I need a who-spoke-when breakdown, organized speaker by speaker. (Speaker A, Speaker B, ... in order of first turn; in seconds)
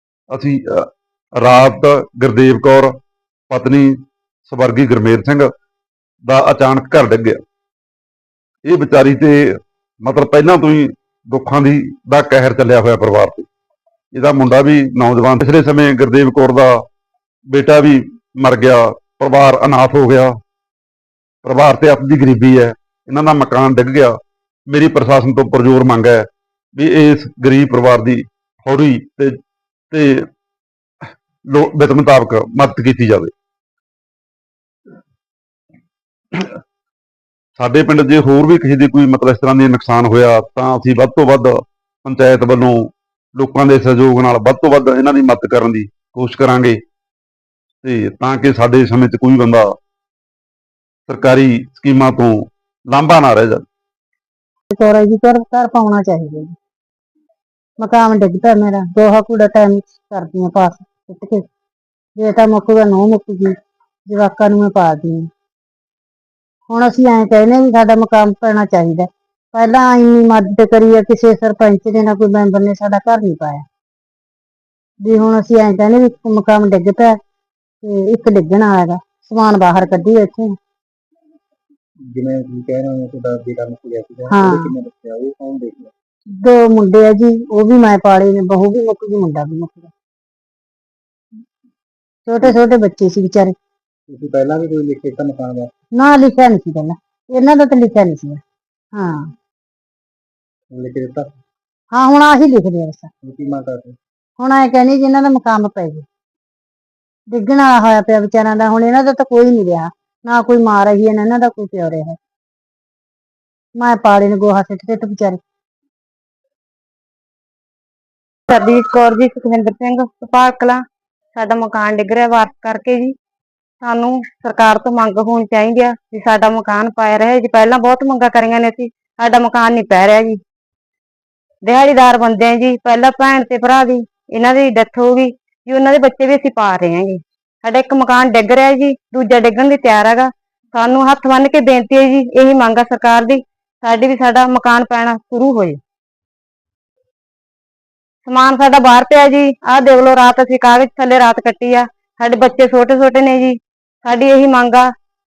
Speaker A: 0.3-3.0, 3.5-5.5, 6.3-7.4, 8.6-13.5, 14.1-16.8, 17.5-20.3, 21.4-24.2, 24.7-29.4, 29.9-30.3, 31.5-33.3, 37.6-46.8, 47.8-49.7, 51.1-53.6
Speaker B: 54.7-56.5, 57.8-61.4, 62.2-63.5, 64.1-65.3, 66.7-73.7, 75.0-77.2, 77.8-80.5, 84.3-84.7, 86.4-89.9, 92.2-93.5, 96.0-98.4, 98.9-99.3, 101.9-103.1, 104.4-106.1, 107.3-112.2, 113.8-115.4
Speaker C: 82.1-85.9, 94.1-95.7, 100.7-101.3, 103.2-104.0
Speaker D: 118.5-120.8, 121.3-123.1, 123.8-130.4, 131.6-145.8, 148.2-154.9